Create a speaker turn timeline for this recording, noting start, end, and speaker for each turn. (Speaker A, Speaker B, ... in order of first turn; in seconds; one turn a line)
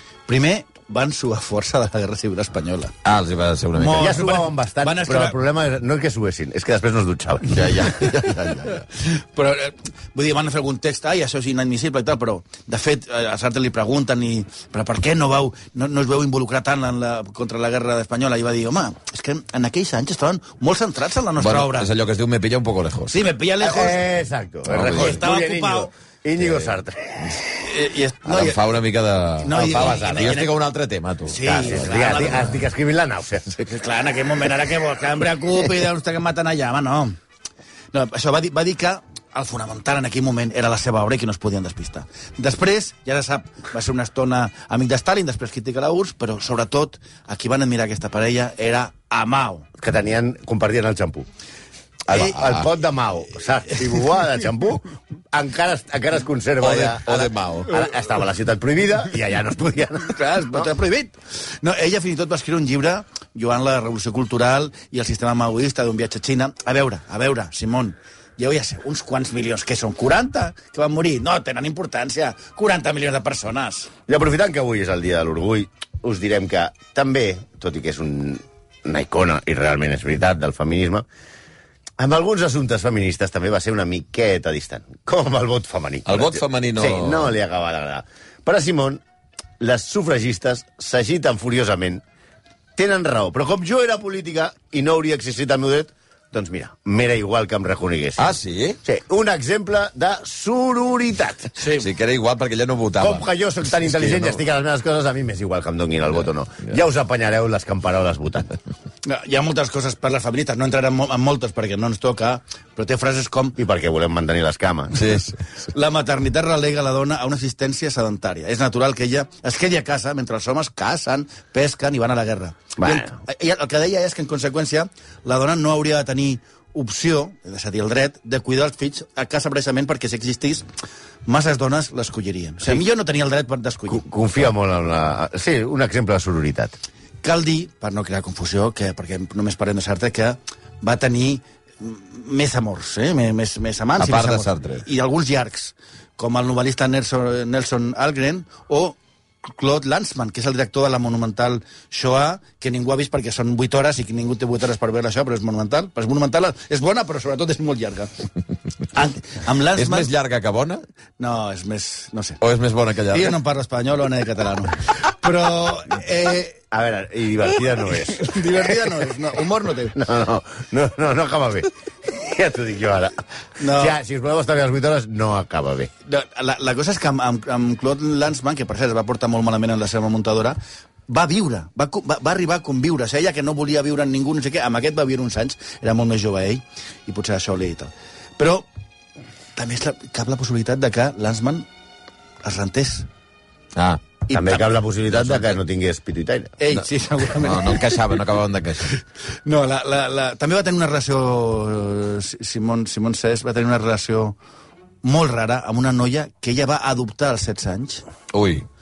Speaker A: 0.3-2.9
Speaker B: 3.0-4.2
Speaker A: 3.7-5.3
Speaker C: 4.0-8.1
Speaker B: 7.5-8.7
Speaker A: 7.5-21.9
Speaker B: 21.4-23.2
Speaker A: 23.1-24.0
Speaker C: 23.6-27.2
Speaker B: 24.7-25.2
Speaker A: 24.8-25.9
Speaker B: 26.4-26.7
Speaker A: 27.5-28.6
Speaker B: 28.2-32.5
Speaker A: 29.4-30.5
Speaker C: 29.5-30.4
Speaker A: 31.3-32.6
Speaker C: 31.5-33.6
Speaker A: 33.6-37.2
Speaker A: 37.9-49.7
Speaker C: 49.8-51.3
Speaker C: 52.1-60.6
Speaker A: 52.1-52.4
Speaker B: 52.1-52.7
Speaker B: 56.6-57.7
Speaker A: 60.0-73.9
Speaker C: 74.1-81.0
Speaker C: 82.0-89.0
Speaker B: 86.0-87.3
Speaker C: 89.6-92.0
Speaker C: 92.8-98.3
Speaker B: 98.2-98.8
Speaker C: 98.8-101.5
Speaker A: 101.6-101.9
Speaker B: 101.8-104.4
Speaker C: 103.0-108.5
Speaker A: 109.0-113.6
Speaker C: 113.6-115.0
Speaker B: 114.9-115.4
Speaker A: 115.7-130.7
Speaker C: 122.8-123.2
Speaker A: 131.2-134.0
Speaker C: 133.9-136.8
Speaker A: 137.2-158.1
Speaker B: 144.0-144.8
Speaker A: 158.9-160.1
Speaker B: 159.8-160.8
Speaker A: 161.2-162.4
Speaker B: 162.4-163.4
Speaker A: 163.1-166.6
Speaker C: 166.7-168.5
Speaker A: 167.9-170.0
Speaker C: 169.9-175.9
Speaker A: 173.6-174.0
Speaker A: 176.1-188.7
Speaker A: 189.6-191.7
Speaker A: 192.4-193.1
Speaker B: 193.8-194.0
Speaker A: 194.3-194.6
Speaker C: 194.3-196.6
Speaker B: 195.1-195.5
Speaker A: 196.6-198.0
Speaker B: 196.7-198.9
Speaker A: 199.4-204.4
Speaker A: 205.0-208.0
Speaker B: 208.3-208.7